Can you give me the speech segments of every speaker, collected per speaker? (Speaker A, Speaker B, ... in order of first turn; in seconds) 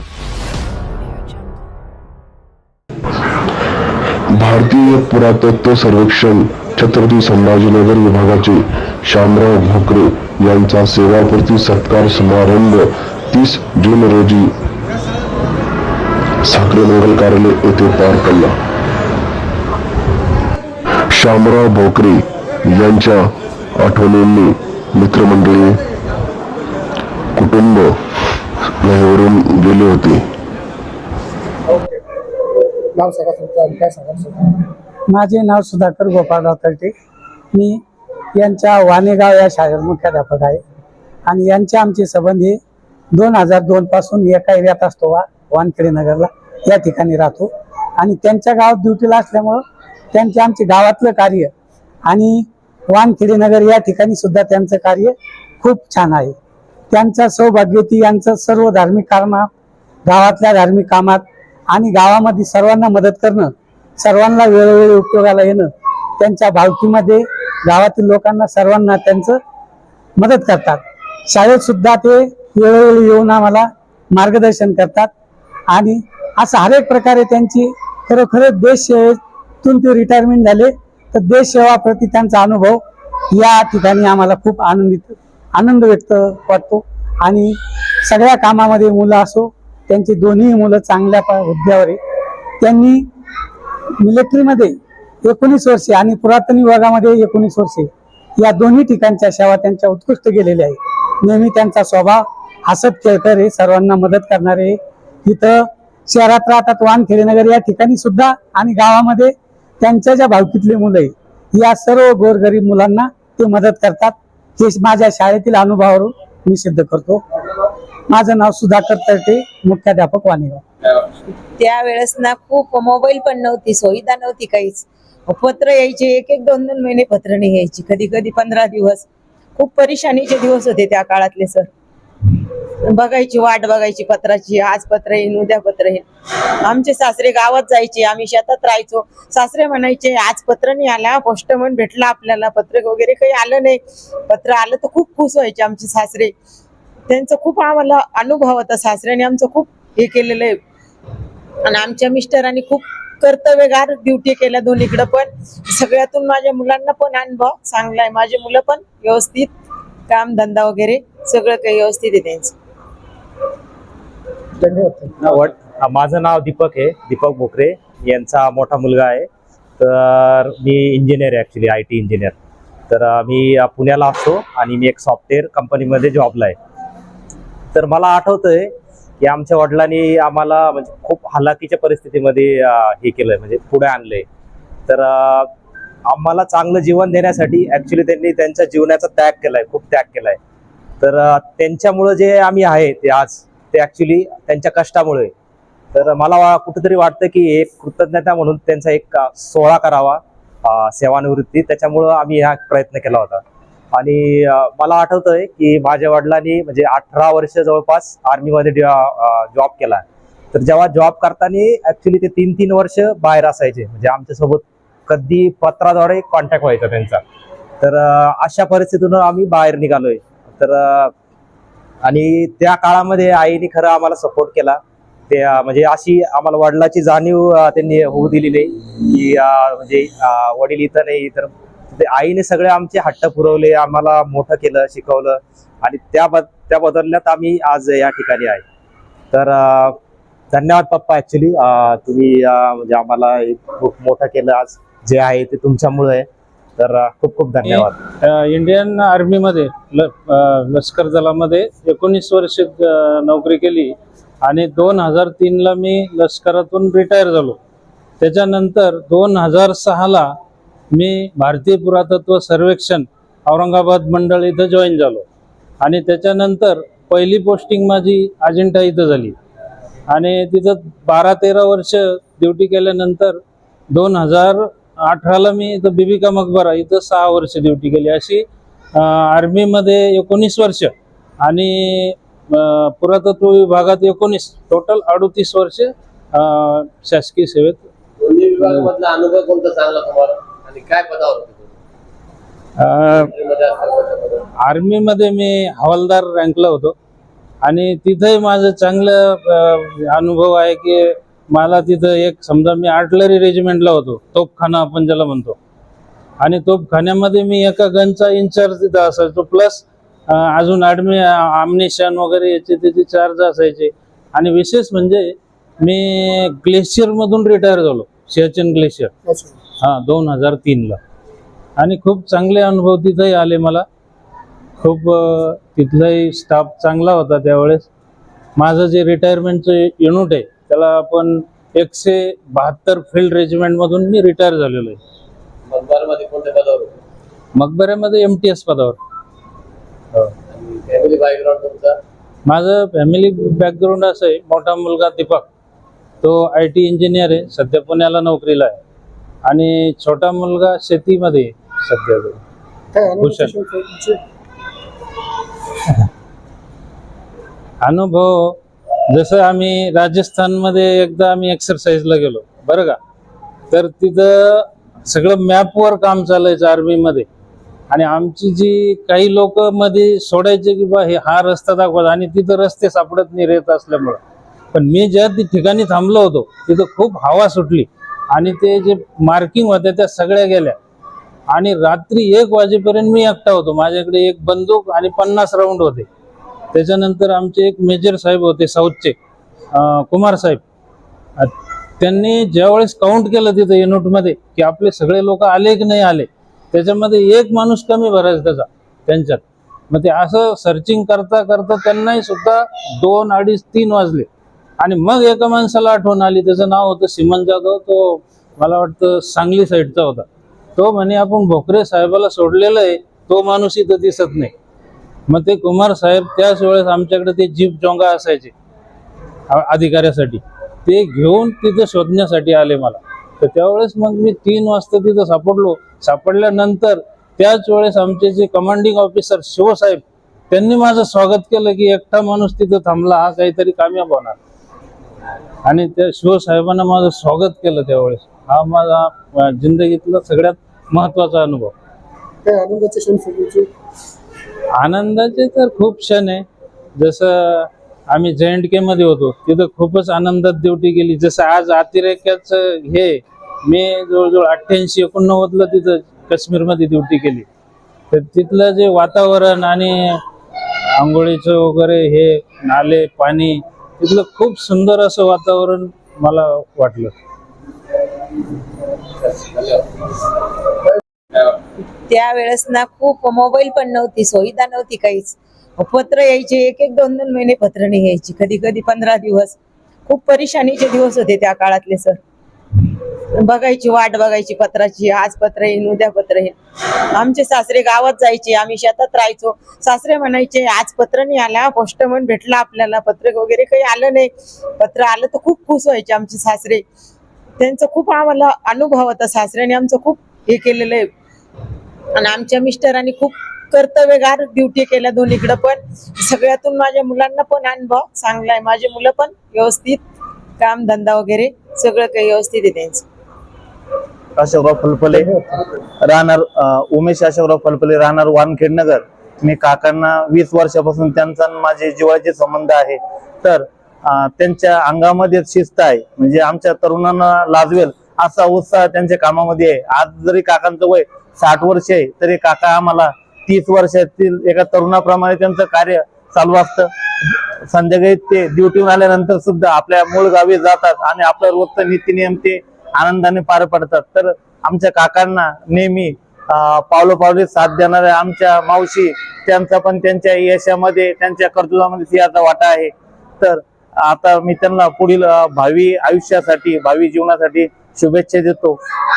Speaker A: 4.4-14.5, 16.4-18.6, 21.1-23.2, 23.8-25.8, 27.4-28.0, 28.8-30.3
Speaker B: 31.7-32.0, 32.9-34.5, 164.6-165.1, 319.2-319.5, 352.9-354.2, 442.4-443.7, 515.1-515.5
Speaker C: 35.1-36.9, 37.5-37.8, 38.4-40.6, 41.3-42.6, 43.1-49.6, 50.1-51.5, 52.1-56.4, 56.9-59.5, 60.1-69.4, 70.2-75.1, 75.7-82.8, 83.3-92.0, 92.6-93.1, 94.0-94.7, 95.2-117.2, 118.1-120.6
Speaker D: 121.6-131.7, 132.8-136.1, 136.6-146.3, 147.1-150.6, 151.7-159.5, 160.1-162.5, 472.1-479.6, 480.1-482.2, 483.4-486.6, 487.1-496.9, 497.6-501.1, 502.2-510.0, 510.6-513.0
Speaker E: 165.3-169.3, 169.8-172.3, 172.9-176.6, 177.7-184.3, 184.9-185.5, 186.1-190.4, 191.0-195.3, 195.9-217.2, 217.8-221.1, 222.0-238.6, 239.3-240.0, 240.5-246.3, 246.8-247.9
Speaker F: 247.6-257.6, 258.2-260.3, 260.9-265.2, 265.8-269.4, 270.1-273.4, 273.9-278.4, 278.9-287.9, 288.6-288.9, 292.8-293.3, 294.6-296.9, 297.6-305.6, 306.4-319.1, 319.8-321.0, 321.8-323.8, 324.8-327.9, 328.6-335.0, 337.6-339.0, 342.5-345.5, 346.2-348.8, 349.4-352.4, 353.2-353.6, 357.8-358.6, 359.1-363.0, 363.7-367.3, 367.9-374.2, 374.7-380.8, 381.5-386.1, 386.7-389.2, 389.7-390.6, 391.4-404.3, 404.8-410.3, 410.8-414.5, 415.3-418.5, 419.5-434.4, 435.6-441.7, 444.8-446.4, 447.0-457.5, 458.1-460.2, 461.0-467.1
Speaker G: 288.2-291.7, 293.4-294.4, 335.7-336.9, 340.6-341.9, 469.3-469.8
Speaker H: 514.4-515.3, 516.0-558.8